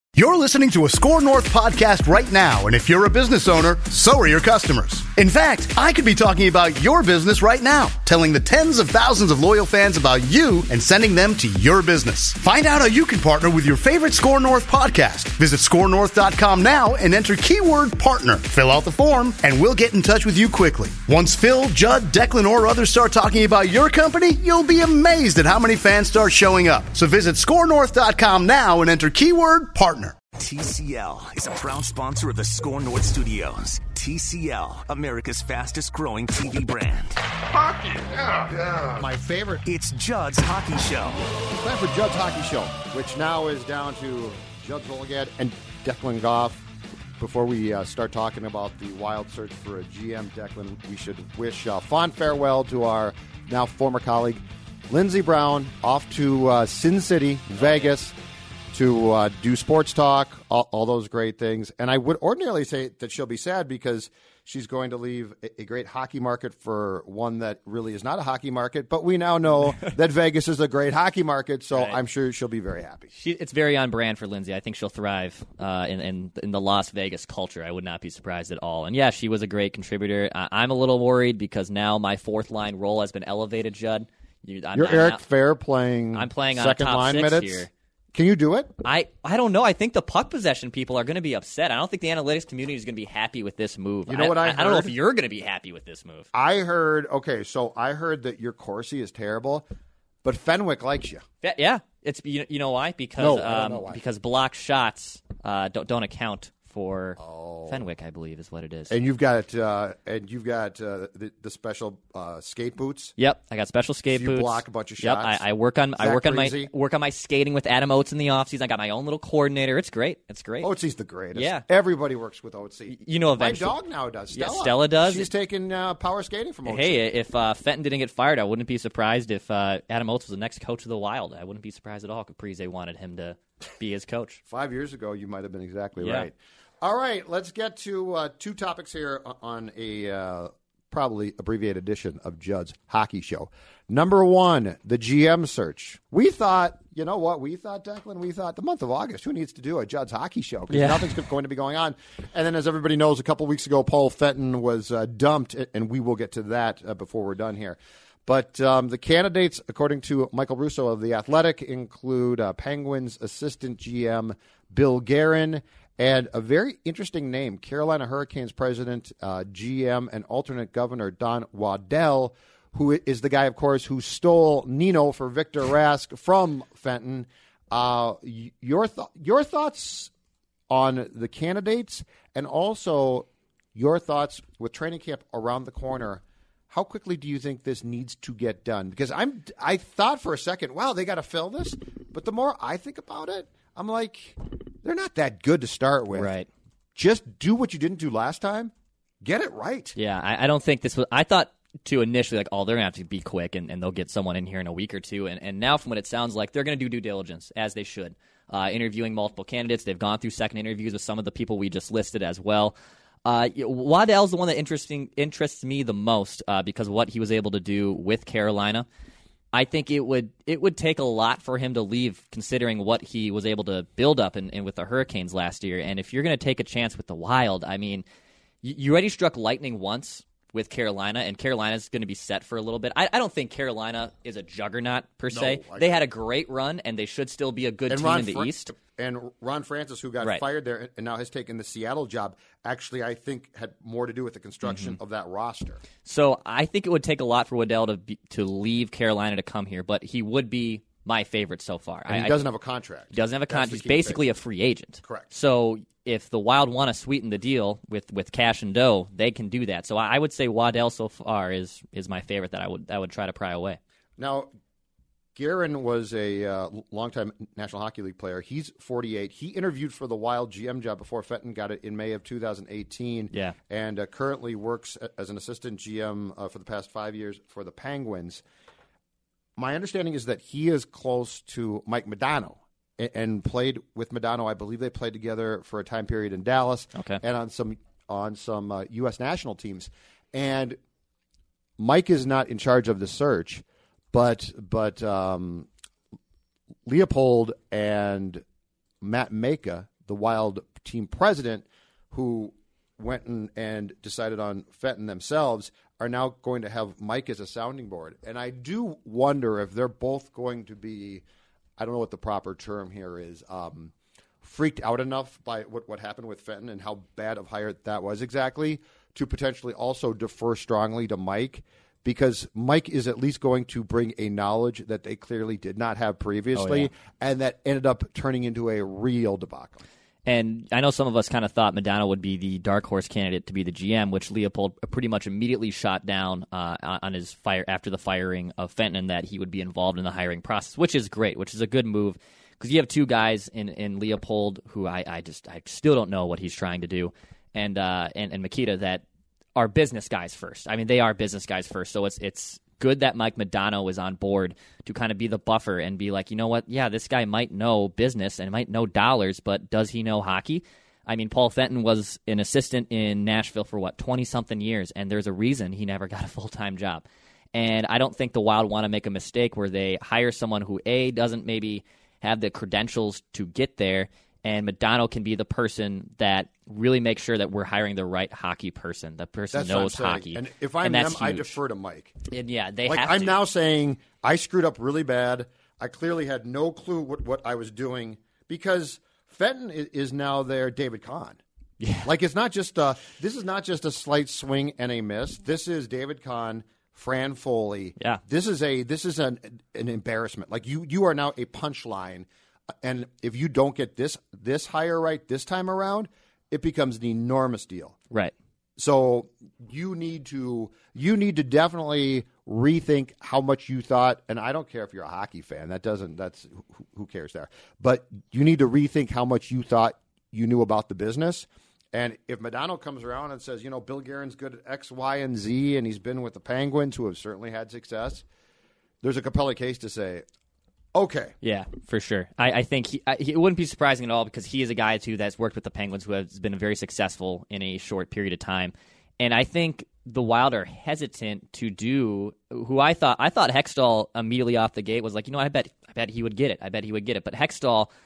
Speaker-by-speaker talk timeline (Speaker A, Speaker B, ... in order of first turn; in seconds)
Speaker A: 0.1-30.2
Speaker B: 30.3-38.7, 39.6-41.2
Speaker C: 39.0-39.6, 41.5-46.6, 47.2-58.1, 58.7-73.1, 84.7-88.7, 94.1-94.9, 96.3-99.7, 100.2-101.2, 103.2-104.0, 107.2-107.8, 108.9-113.1, 114.1-115.4, 116.0-116.7, 120.6-127.0, 134.5-180.1, 180.7-196.3, 196.9-200.0, 235.3-236.0, 237.9-245.8, 252.1-254.2, 255.0-255.3, 264.2-264.5, 265.3-278.4, 279.6-290.8, 291.8-295.7, 296.9-298.4, 299.0-311.2, 311.8-329.8, 379.5-382.1, 382.8-391.4, 392.0-402.3, 402.8-408.0, 408.8-428.2, 429.0-430.2, 430.9-431.3
Speaker D: 71.7-72.0, 73.1-85.2, 86.1-87.7, 88.8-96.3, 101.4-109.0, 113.2-120.7, 121.3-121.6, 122.9-123.7, 124.3-125.3, 126.6-134.4, 136.0-136.3, 150.7-151.1, 196.1-196.5, 200.0-212.7, 213.2-218.9, 219.5-228.0, 228.6-238.7, 244.6-245.0, 246.0-252.4, 253.1-263.8, 273.3-273.6, 286.9-287.2, 326.5-326.9, 330.2-349.0, 349.6-381.5, 382.3-383.4, 391.8-392.1, 431.4-447.9